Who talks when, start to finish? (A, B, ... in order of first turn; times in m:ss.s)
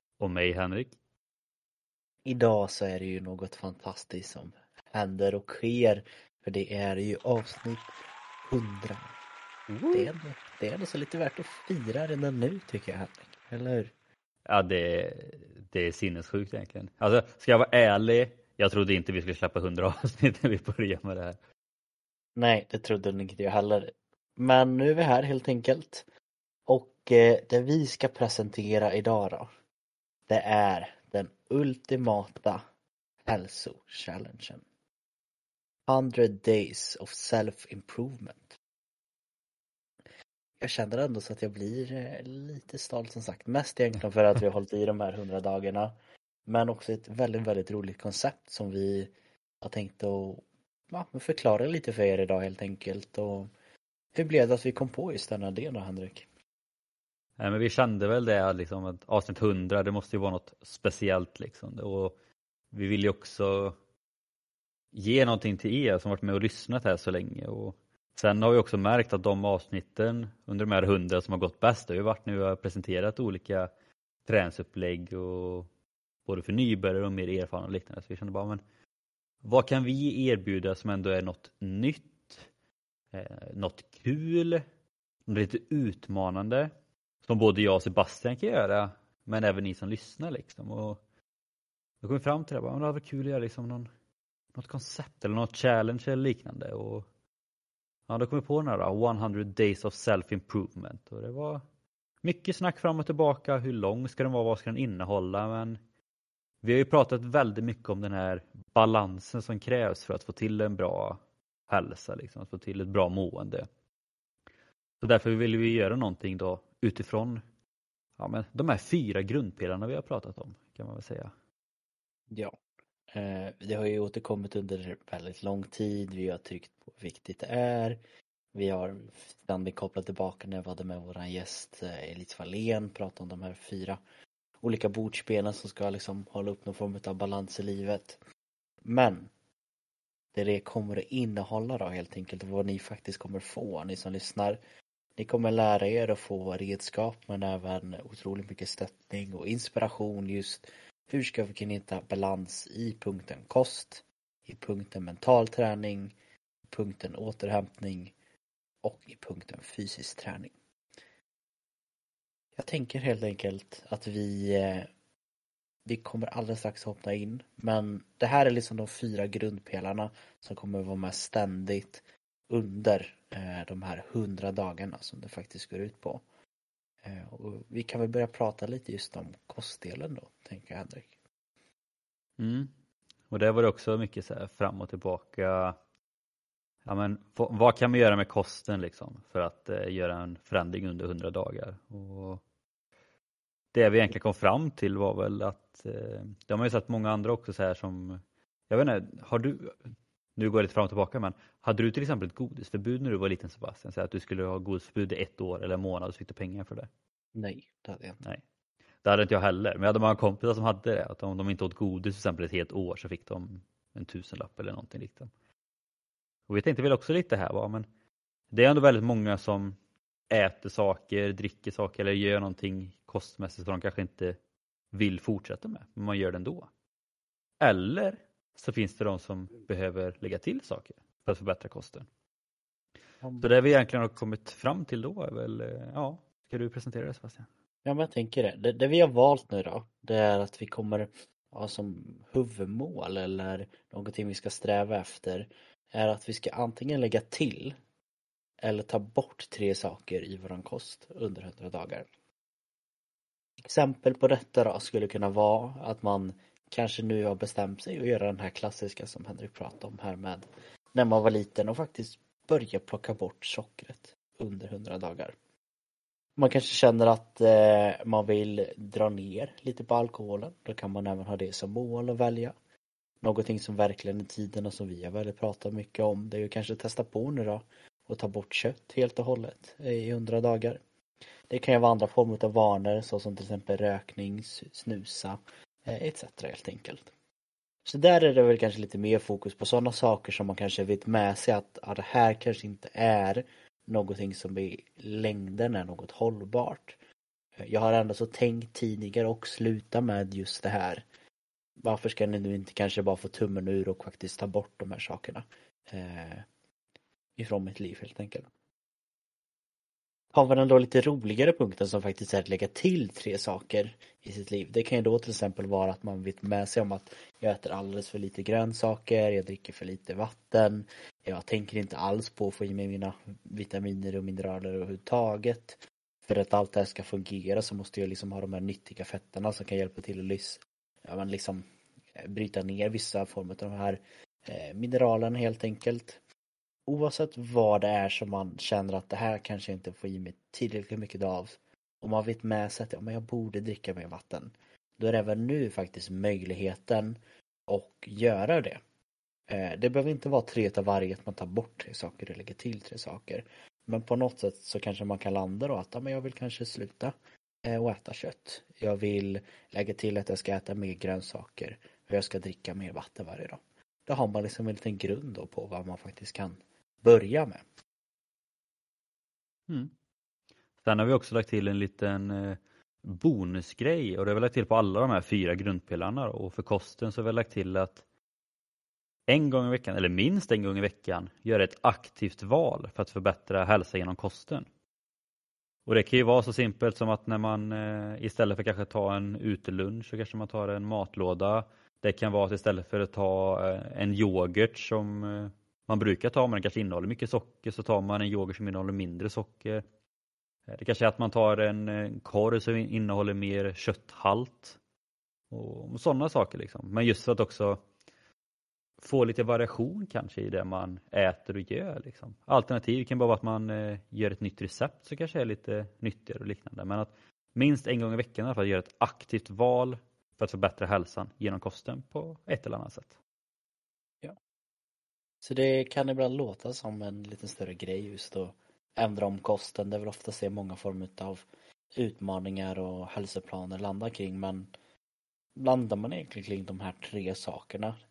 0:00.2-0:01.0 A
0:02.2-0:07.9 B
0:08.4-0:09.1 B
0:09.7-0:10.1 A
0:09.9-0:13.9 B
0:14.5-0:21.4 A
0:22.4-0:26.0 B
0:26.7-0:29.5 B
0:30.3-0:32.6 B
0:33.2-0:34.6 B
0:35.8-0:38.6 B
0:40.6-0:45.9 B
0:46.4-0:53.5 B
0:54.1-0:56.3 B
0:57.4-1:02.1 A
1:02.7-1:03.8 A
1:04.9-1:13.7 A
1:14.2-1:15.7 A
1:16.2-1:18.6 A
1:19.4-1:22.5 A
1:23.1-1:24.6 A
1:25.3-1:26.7 A
1:27.2-1:31.0 A
1:32.0-1:33.9 A
1:34.5-1:37.1 A
1:38.1-1:41.6 A
1:42.2-1:45.8 A
1:46.6-1:53.7 A
1:55.0-1:57.4 A
1:58.2-2:01.3 A
2:03.1-2:08.0 B
2:08.5-2:14.0 B
2:14.6-2:18.2 B
2:18.8-2:19.3 B
2:20.3-2:24.6 B
2:25.2-2:36.1 B
2:36.7-2:38.1 B
2:38.8-2:40.5 B
2:42.6-2:44.9 B
2:45.8-2:56.2 B
2:57.0-3:01.1 B
3:02.4-3:02.7 A
3:03.3-3:05.8 A
3:06.8-3:12.4 A
3:13.7-3:19.8 A
3:20.4-3:26.9 A
3:27.3-3:28.2 B
3:29.0-3:35.3 A
3:36.5-3:37.8 A
3:38.5-3:39.8 A
3:40.3-3:44.4 A
3:44.9-3:46.7 A
3:47.6-3:52.1 A
3:53.2-3:53.5 B
3:53.4-3:57.5 A
3:57.8-4:07.8 B
4:08.6-4:12.1 B
4:13.6-4:25.3 B
4:26.4-4:32.5 B
4:33.2-4:40.8 B
4:41.5-4:47.1 B
4:47.8-4:57.0 B
4:57.6-5:01.0 B
5:01.8-5:06.5 B
5:07.4-5:08.5 B
5:10.3-5:31.6 B
5:32.2-5:36.2 B
5:36.9-5:48.8 B
5:49.5-5:57.1 B
5:57.6-6:07.6 B
6:10.8-6:18.0 A
6:19.3-6:24.7 A
6:25.8-6:39.8 A
6:40.7-6:44.8 A
6:45.5-6:47.8 A
6:49.0-7:03.2 A
7:05.4-7:14.7 B
7:15.6-7:17.9 B